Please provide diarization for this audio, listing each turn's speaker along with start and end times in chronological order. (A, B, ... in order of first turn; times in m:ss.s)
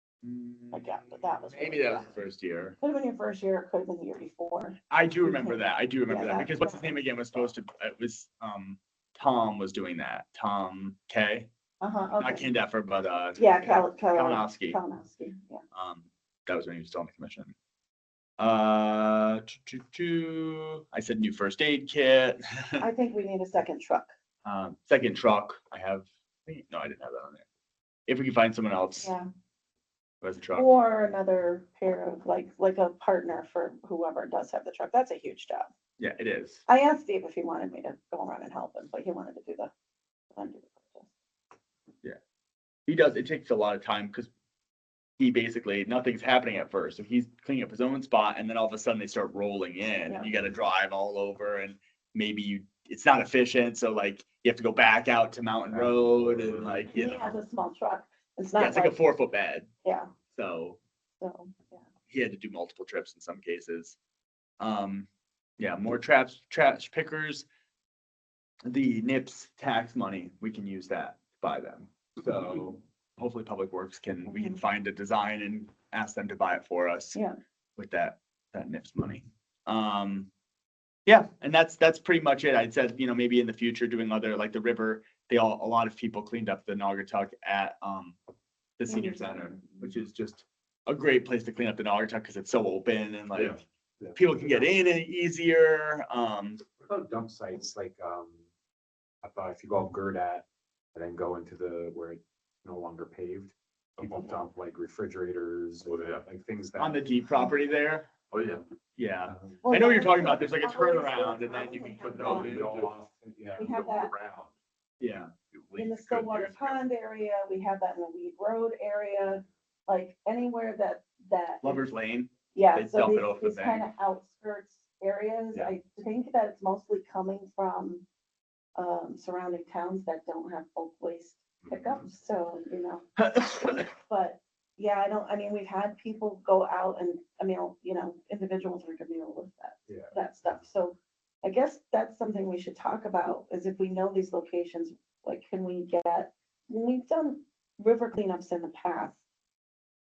0:00.2-0:02.8 A
0:00.7-0:02.2 B
0:02.8-0:07.0 B
0:04.9-0:11.5 A
0:11.8-0:12.5 B
0:12.2-0:14.8 A
0:13.4-0:15.6 B
0:15.7-0:17.6 A
0:18.4-0:22.9 A
0:22.8-0:24.1 B
0:24.4-0:27.5 A
0:28.1-0:29.1 A
0:29.0-0:29.3 B
0:30.2-0:30.7 A
0:30.5-0:35.7 B
0:36.0-0:36.6 A
0:36.7-0:39.7 B
0:40.4-0:41.1 B
0:42.9-0:44.3 A
0:45.2-0:57.3 A
0:55.7-0:56.7 C
0:56.9-0:59.0 B
0:58.6-0:59.7 A
0:59.8-1:00.1 B
1:00.3-1:00.8 A
1:01.2-1:01.8 B
1:02.1-1:04.0 A
1:04.6-1:05.1 A
1:05.6-1:07.5 A
1:08.7-1:17.2 A
1:14.3-1:14.6 B
1:17.8-1:20.3 A
1:21.1-1:28.2 A
1:28.8-1:33.6 A
1:28.9-1:29.9 B
1:33.4-1:34.7 C
1:34.1-1:36.6 A
1:36.8-1:38.4 C
1:39.2-1:47.0 C
1:44.0-1:44.4 D
1:45.9-1:46.2 D
1:46.8-1:48.1 A
1:48.3-1:48.6 D
1:49.0-1:52.6 A
1:49.6-1:52.7 B
1:52.0-1:52.9 D
1:52.2-1:54.5 C
1:53.6-1:54.1 B
1:53.7-1:54.4 D
1:55.0-1:55.3 A
1:55.6-1:56.7 D
1:55.8-2:01.9 B
2:01.6-2:03.9 A
2:02.5-2:08.0 B
2:08.8-2:29.2 B
2:11.6-2:12.0 C
2:13.2-2:13.8 A
2:19.9-2:20.6 C